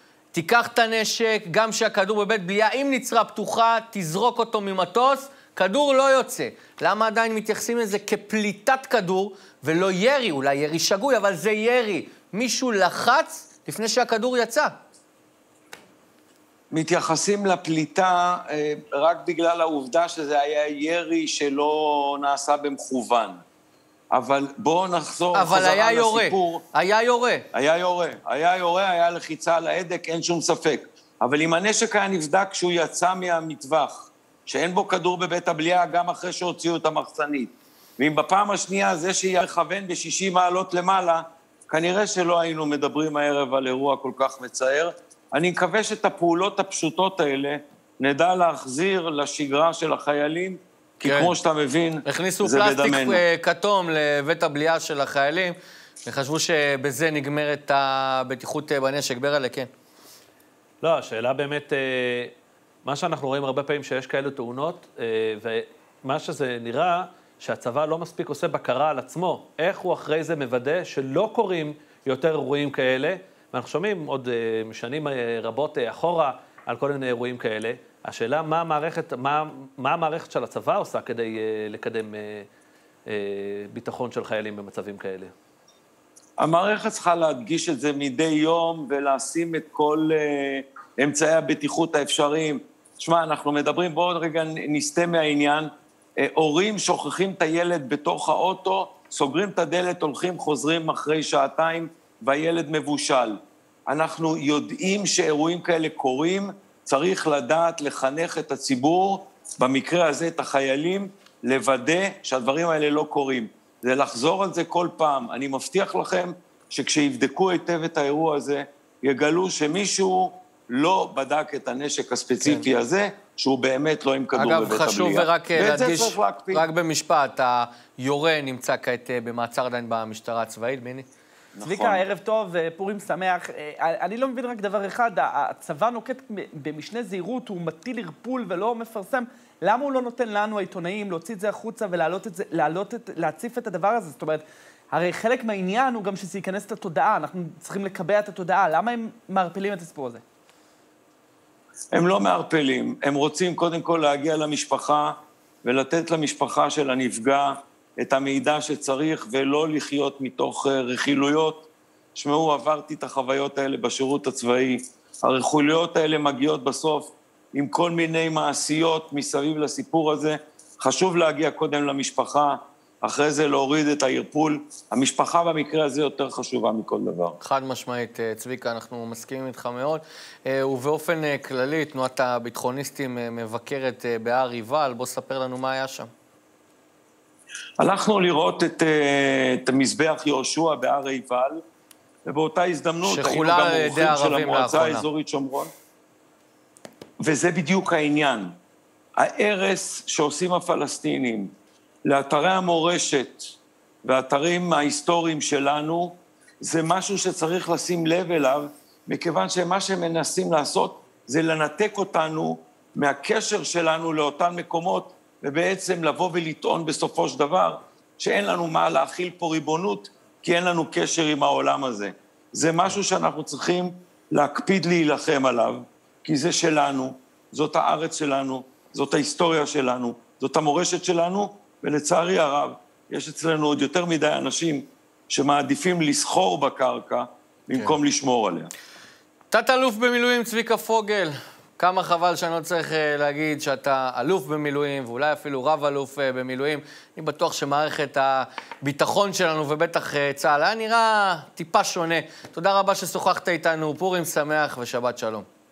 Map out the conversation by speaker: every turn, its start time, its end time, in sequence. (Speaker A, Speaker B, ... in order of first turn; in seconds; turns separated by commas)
Speaker A: 0.3-14.8, Speaker B: 16.7-23.4, Speaker B: 24.1-26.6, Speaker A: 25.3-27.4, Speaker B: 27.5-53.2, Speaker A: 51.0-51.3, Speaker A: 52.0-59.7, Speaker C: 60.8-62.3, Speaker C: 62.9-82.5, Speaker C: 83.1-85.3, Speaker B: 86.4-126.7, Speaker A: 122.4-122.7, Speaker A: 124.4-131.1, Speaker B: 131.6-132.1, Speaker D: 131.6-150.2, Speaker B: 151.9-177.4, Speaker A: 177.4-186.1, Speaker B: 187.8-191.6, Speaker B: 192.2-195.7, Speaker A: 193.0-195.1, Speaker B: 197.2-198.6, Speaker B: 199.2-201.5, Speaker B: 202.1-203.5, Speaker B: 204.1-238.7, Speaker A: 239.5-255.5